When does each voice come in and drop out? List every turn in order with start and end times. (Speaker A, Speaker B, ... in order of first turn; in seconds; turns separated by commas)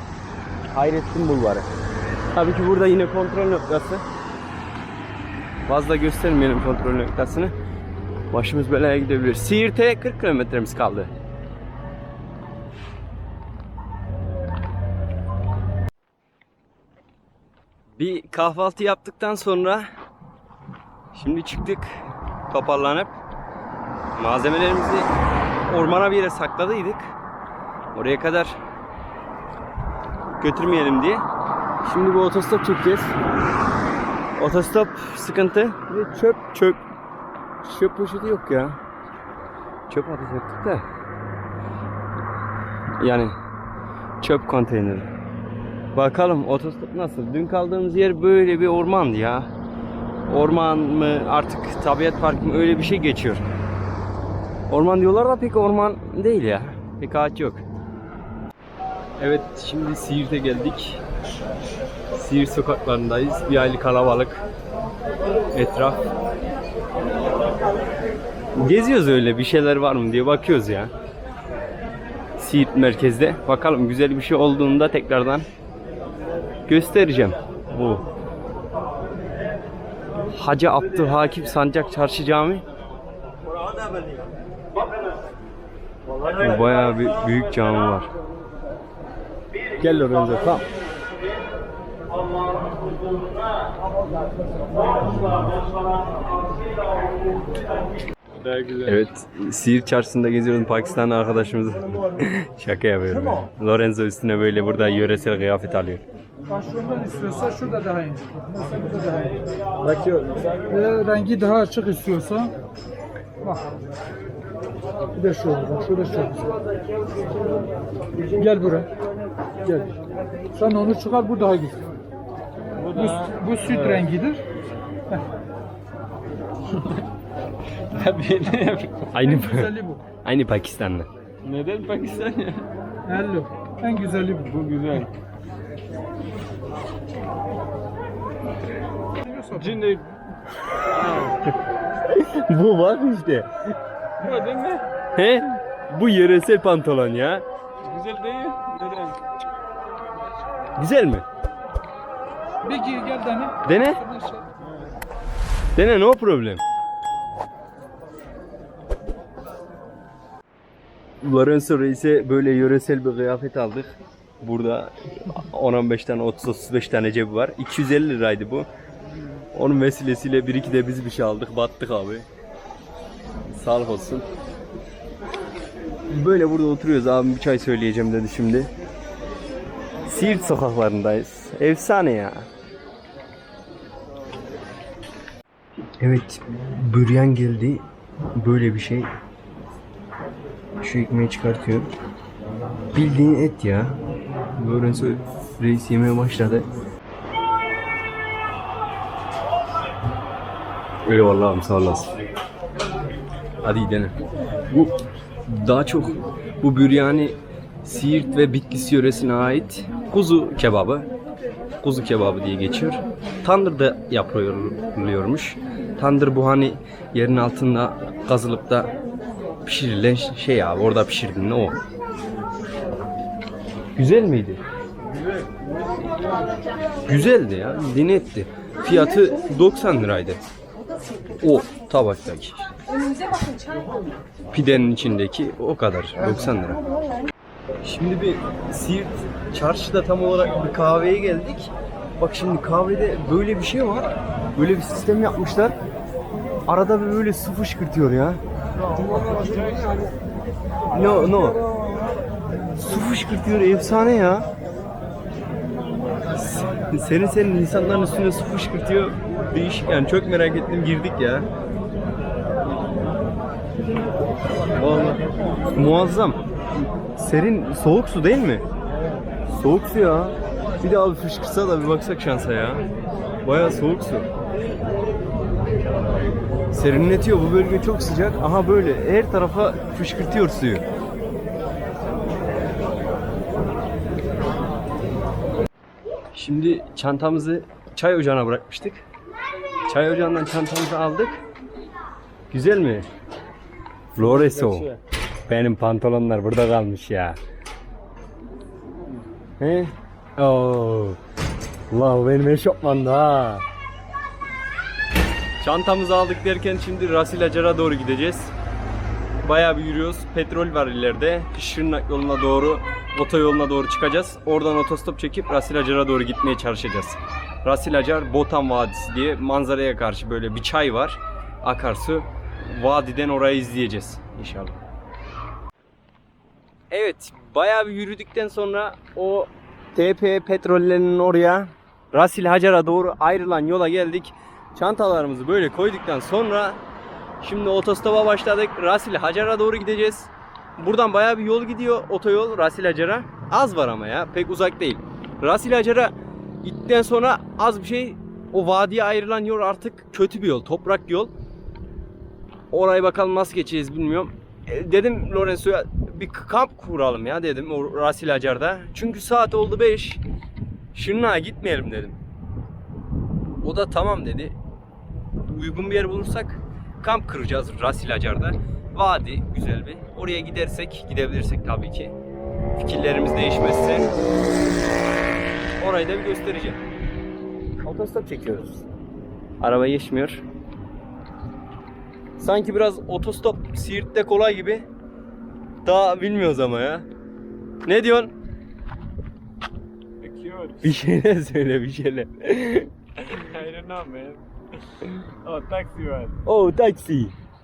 Speaker A: 0.7-1.7, Speaker A: 2.3-4.0, Speaker A: 5.7-7.5, Speaker A: 8.3-11.1, Speaker A: 17.9-19.9, Speaker A: 21.1-23.1, Speaker A: 24.1-25.1, Speaker A: 25.6-27.1, Speaker A: 27.9-28.6, Speaker A: 30.4-31.2, Speaker A: 31.8-33.1, Speaker A: 34.4-36.8, Speaker A: 37.6-38.8, Speaker A: 39.9-40.9, Speaker A: 43.0-43.4, Speaker A: 44.2-45.1, Speaker A: 45.9-49.5, Speaker A: 50.2-53.5, Speaker A: 54.7-57.6, Speaker A: 59.2-61.0, Speaker A: 62.1-64.4, Speaker A: 65.5-66.0, Speaker A: 68.5-70.9, Speaker A: 72.4-75.5, Speaker A: 76.7-78.0, Speaker A: 80.3-82.6, Speaker A: 86.4-88.1, Speaker A: 89.8-90.6, Speaker B: 98.4-98.9, Speaker A: 98.8-106.0, Speaker C: 106.5-109.5, Speaker C: 110.7-112.5, Speaker C: 115.1-116.6, Speaker C: 118.3-118.9, Speaker C: 119.6-119.9, Speaker C: 120.5-121.8, Speaker B: 122.8-124.1, Speaker C: 123.2-124.4, Speaker B: 126.7-127.0, Speaker B: 127.9-129.2, Speaker A: 129.1-131.1, Speaker C: 129.4-129.9, Speaker B: 131.4-132.7, Speaker C: 133.1-134.5, Speaker B: 134.3-135.1, Speaker C: 139.2-139.5, Speaker B: 139.5-140.2, Speaker A: 140.9-141.5, Speaker A: 142.1-143.5, Speaker B: 144.2-144.9, Speaker A: 145.1-147.4, Speaker B: 147.8-149.2, Speaker A: 150.8-151.2, Speaker C: 152.6-153.6, Speaker A: 153.6-154.2, Speaker C: 154.1-154.4, Speaker A: 155.8-156.6, Speaker A: 161.2-168.7, Speaker A: 169.5-172.3, Speaker A: 173.5-174.2, Speaker A: 176.1-178.7, Speaker A: 180.1-182.5, Speaker A: 186.0-189.1, Speaker A: 190.8-191.9, Speaker A: 192.9-194.0, Speaker A: 194.6-196.7, Speaker A: 201.1-202.1, Speaker A: 203.6-204.1, Speaker A: 204.7-204.9, Speaker A: 205.5-211.1, Speaker A: 211.8-218.9, Speaker A: 219.6-221.8, Speaker A: 223.9-224.6, Speaker A: 227.1-230.4, Speaker A: 231.4-232.7, Speaker A: 234.5-236.8, Speaker A: 237.8-245.8, Speaker A: 246.7-248.4, Speaker B: 249.4-249.8, Speaker A: 250.9-251.6, Speaker A: 252.8-254.5, Speaker A: 256.4-261.5, Speaker A: 264.8-265.2, Speaker A: 265.7-266.4, Speaker A: 267.1-268.6, Speaker A: 269.5-272.8, Speaker A: 273.4-274.3, Speaker A: 276.7-280.8, Speaker A: 286.3-289.0, Speaker A: 289.9-291.4, Speaker A: 292.5-293.1, Speaker A: 294.1-294.9, Speaker B: 294.2-295.0, Speaker A: 295.5-297.4, Speaker A: 299.6-301.2, Speaker A: 301.9-303.6, Speaker A: 305.6-308.5, Speaker A: 309.4-324.8, Speaker A: 326.9-336.8, Speaker A: 337.4-351.3, Speaker A: 352.7-360.2, Speaker A: 360.9-362.2, Speaker A: 363.6-364.6, Speaker A: 365.5-372.1, Speaker A: 372.7-374.1, Speaker A: 375.8-376.8, Speaker A: 377.8-378.8, Speaker A: 379.6-380.4, Speaker A: 382.4-384.9, Speaker A: 385.8-387.1, Speaker A: 387.8-388.3, Speaker B: 390.2-391.0, Speaker A: 390.8-392.9, Speaker B: 393.3-396.4, Speaker A: 396.4-397.4